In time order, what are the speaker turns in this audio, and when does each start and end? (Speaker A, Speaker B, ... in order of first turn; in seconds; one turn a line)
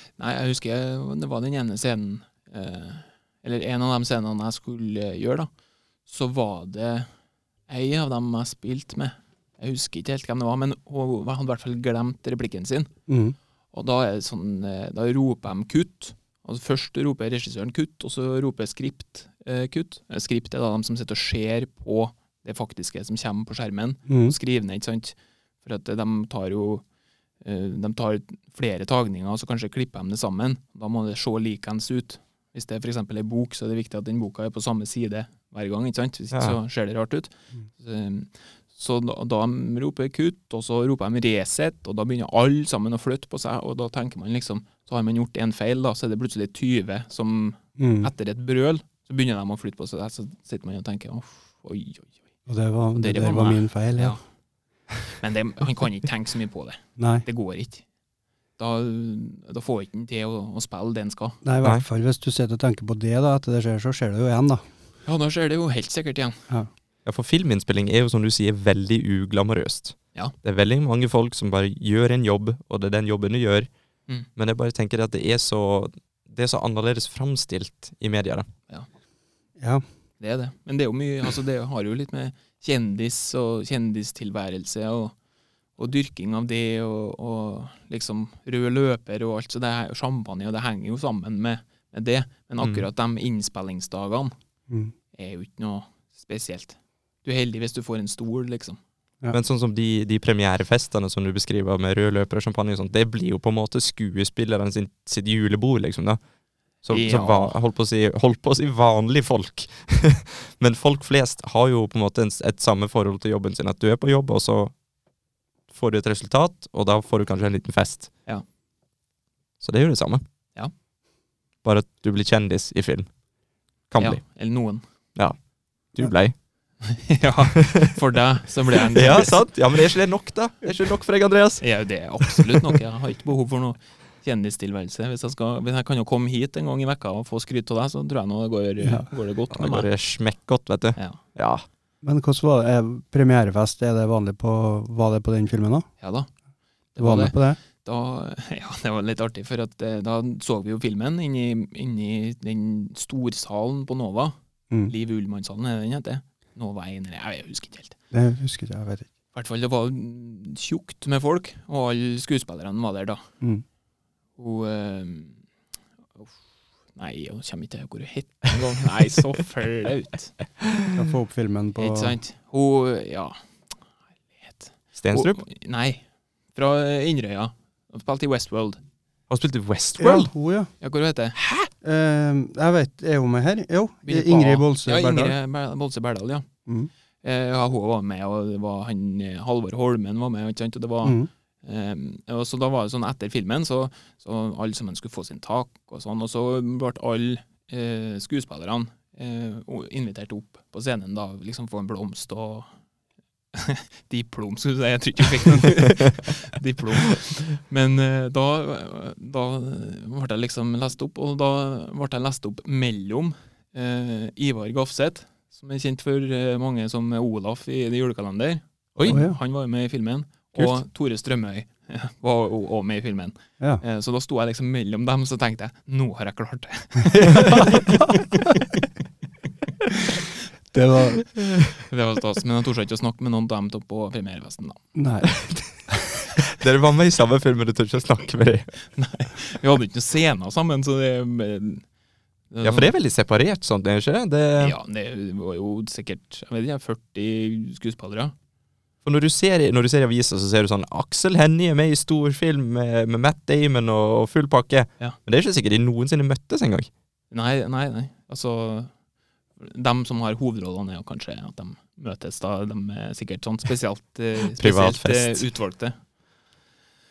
Speaker A: 0.2-5.5
Speaker A: 6.0-7.1
Speaker A: 7.7-12.9
Speaker B: 13.1-13.3
Speaker A: 13.7-26.8
Speaker B: 24.1-24.4
Speaker A: 27.4-52.2
Speaker B: 47.8-48.1
Speaker B: 52.5-54.2
Speaker A: 53.0-54.2
Speaker A: 55.2-57.8
Speaker B: 57.0-57.2
Speaker A: 58.6-61.4
Speaker B: 61.4-64.6
Speaker A: 65.0-66.4
Speaker C: 67.0-73.7
Speaker C: 74.3-78.5
Speaker B: 79.6-79.8
Speaker A: 80.2-85.1
Speaker A: 85.8-94.3
Speaker A: 95.1-98.8
Speaker C: 99.3-106.2
Speaker C: 106.8-114.7
Speaker A: 106.9-107.5
Speaker C: 115.7-118.1
Speaker C: 119.6-120.2
Speaker C: 121.6-123.1
Speaker C: 123.9-124.4
Speaker A: 124.0-124.8
Speaker C: 125.9-126.3
Speaker A: 126.8-129.4
Speaker C: 128.9-131.6
Speaker A: 131.6-139.9
Speaker C: 132.2-132.7
Speaker B: 138.8-139.1
Speaker C: 139.5-141.6
Speaker B: 142.0-145.8
Speaker A: 146.0-146.3
Speaker A: 146.9-154.3
Speaker B: 147.0-147.6
Speaker A: 154.9-157.9
Speaker B: 158.1-159.1
Speaker A: 159.3-163.2
Speaker A: 164.4-165.4
Speaker A: 166.9-170.3
Speaker B: 170.9-172.2
Speaker A: 171.8-173.4
Speaker A: 174.4-176.0
Speaker C: 175.0-175.4
Speaker A: 176.5-178.8
Speaker C: 179.3-180.3
Speaker B: 180.0-180.7
Speaker A: 180.8-181.7
Speaker B: 181.8-185.3
Speaker A: 184.0-186.5
Speaker A: 187.2-202.7
Speaker B: 191.0-191.3
Speaker A: 203.5-228.2
Speaker B: 219.1-219.4
Speaker C: 227.2-227.8
Speaker B: 230.7-231.2
Speaker C: 231.4-231.7
Speaker A: 231.9-234.8
Speaker B: 234.9-235.3
Speaker C: 236.4-238.7
Speaker A: 238.9-241.8
Speaker A: 242.5-242.9
Speaker C: 242.6-244.7
Speaker A: 244.6-248.3
Speaker C: 249.0-256.9
Speaker A: 257.3-258.9
Speaker A: 259.6-266.0
Speaker C: 264.6-265.5